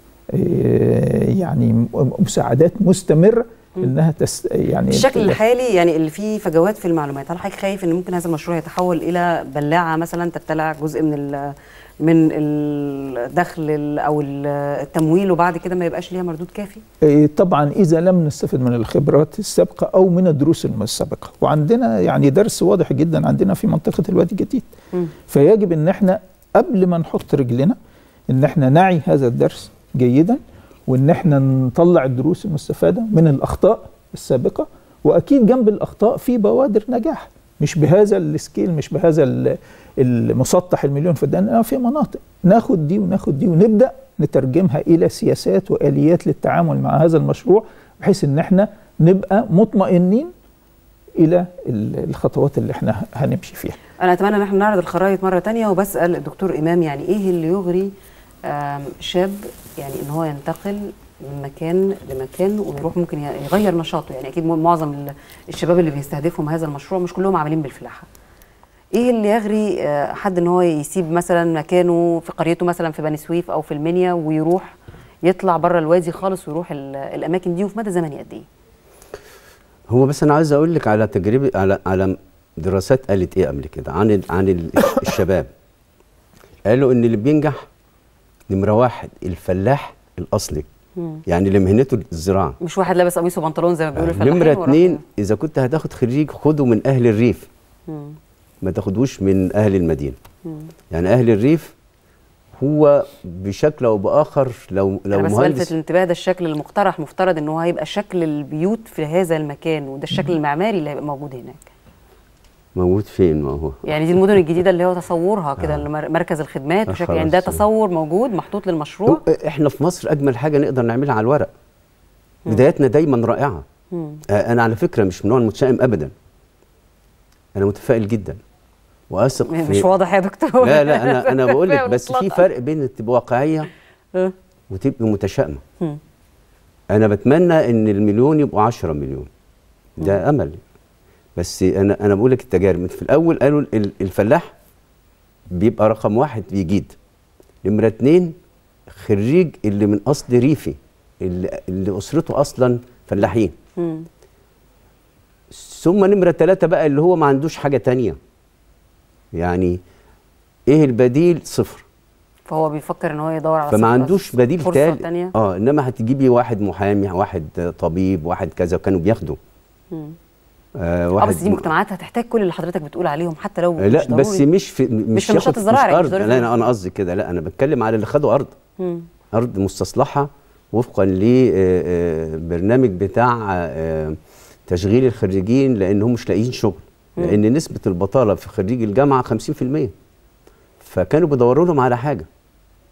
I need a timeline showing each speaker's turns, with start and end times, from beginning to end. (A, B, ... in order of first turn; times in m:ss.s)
0:00.3-0:05.4 A
0:04.9-0:16.8 B
0:17.0-0:24.7 A
0:25.3-0:27.8 A
0:28.3-0:50.3 A
0:51.2-0:53.8 A
0:54.0-0:57.9 B
0:58.4-1:08.1 B
1:08.9-1:18.5 B
1:19.9-1:25.5 C
1:26.7-1:27.6 C
1:28.5-1:30.7 C
1:31.3-1:32.6 C
1:32.6-1:35.0 B
1:34.0-1:37.5 C
1:37.9-1:38.2 B
1:38.6-1:40.2 C
1:40.9-1:41.7 C
1:42.6-1:45.7 C
1:45.1-1:51.7 B
1:52.8-1:54.2 C
1:53.8-1:59.2 B
1:55.6-1:55.8 C
1:56.9-1:57.6 C
1:59.1-2:01.5 C
2:02.5-2:03.6 C
2:03.9-2:04.2 B
2:04.3-2:06.1 C
2:07.5-2:08.4 C
2:09.1-2:09.9 C
2:09.5-2:12.4 B
2:10.6-2:13.7 C
2:14.7-2:15.6 C
2:16.9-2:19.3 C
2:20.0-2:20.6 C
2:21.4-2:24.5 C
2:25.5-2:27.0 C
2:27.6-2:28.3 C
2:28.9-2:33.5 C
2:33.8-2:34.1 B
2:35.5-2:38.2 C
2:39.3-2:39.8 C
2:40.7-2:41.8 C
2:42.5-2:45.3 B
2:43.7-2:49.4 C
2:50.8-2:51.7 C
2:51.2-2:54.5 B
2:53.8-2:58.5 C
2:55.1-2:56.7 B
2:58.8-2:59.1 B
2:59.3-3:09.9 C
3:10.8-3:12.3 C